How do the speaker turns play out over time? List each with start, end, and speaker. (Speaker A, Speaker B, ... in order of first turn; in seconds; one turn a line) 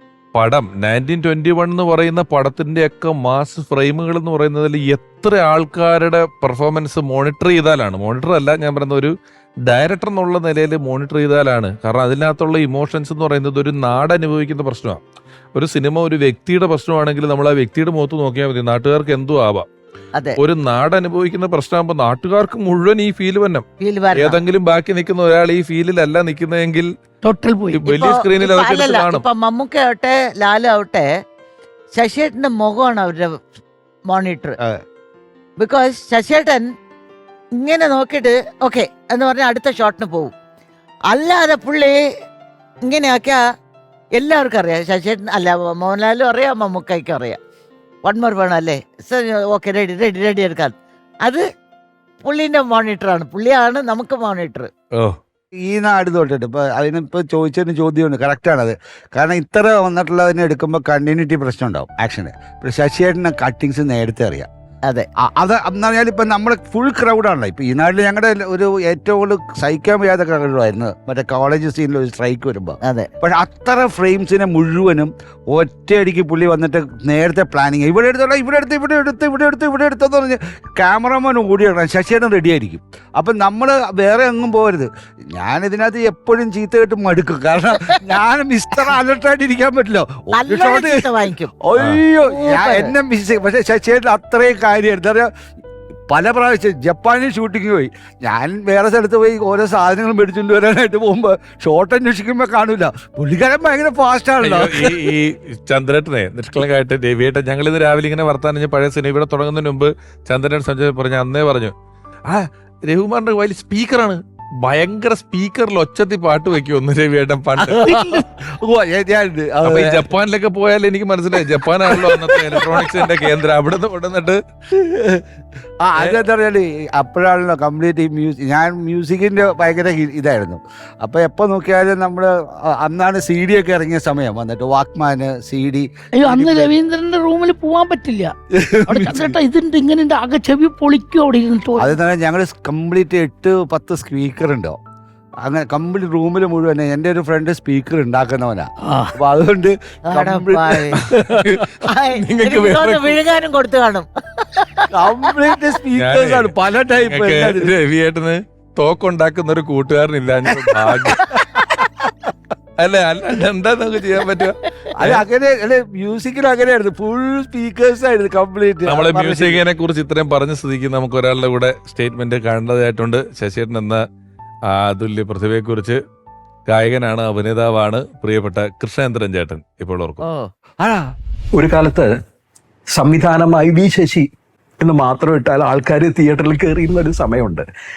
Speaker A: 0.3-9.1
Speaker A: 9.7-15.0
Speaker A: 15.5-19.7
Speaker A: 20.4-26.9
Speaker B: 23.8-24.4
Speaker C: 27.2-27.8
Speaker A: 27.7-29.2
Speaker B: 27.9-31.1
Speaker B: 31.9-33.5
Speaker B: 34.1-34.6
Speaker B: 35.6-36.7
Speaker B: 37.6-40.3
Speaker B: 41.1-42.0
Speaker B: 42.9-43.4
Speaker B: 44.2-47.4
Speaker B: 48.0-51.4
Speaker B: 52.2-54.7
Speaker D: 55.6-64.5
Speaker D: 65.2-95.3
Speaker B: 72.8-73.1
Speaker B: 90.4-91.5
Speaker B: 92.3-92.9
Speaker D: 96.1-105.1
Speaker A: 104.4-111.7
Speaker A: 112.3-118.1
Speaker D: 117.6-120.0
Speaker A: 119.7-124.4
Speaker D: 121.9-123.0
Speaker D: 125.8-136.8
Speaker C: 136.2-138.3
Speaker D: 138.6-139.3
Speaker C: 138.9-141.9
Speaker D: 141.8-144.8
Speaker D: 145.4-151.6
Speaker C: 148.9-149.2
Speaker B: 150.1-151.0
Speaker A: 151.2-153.2
Speaker B: 151.9-155.4
Speaker D: 154.9-157.7
Speaker A: 156.0-161.7
Speaker D: 160.5-161.2
Speaker A: 162.8-165.2
Speaker D: 165.0-169.6
Speaker A: 168.9-174.0
Speaker A: 174.7-176.0
Speaker A: 176.7-180.2
Speaker D: 180.8-181.1
Speaker E: 181.6-182.1
Speaker E: 183.0-184.3
Speaker E: 184.8-187.7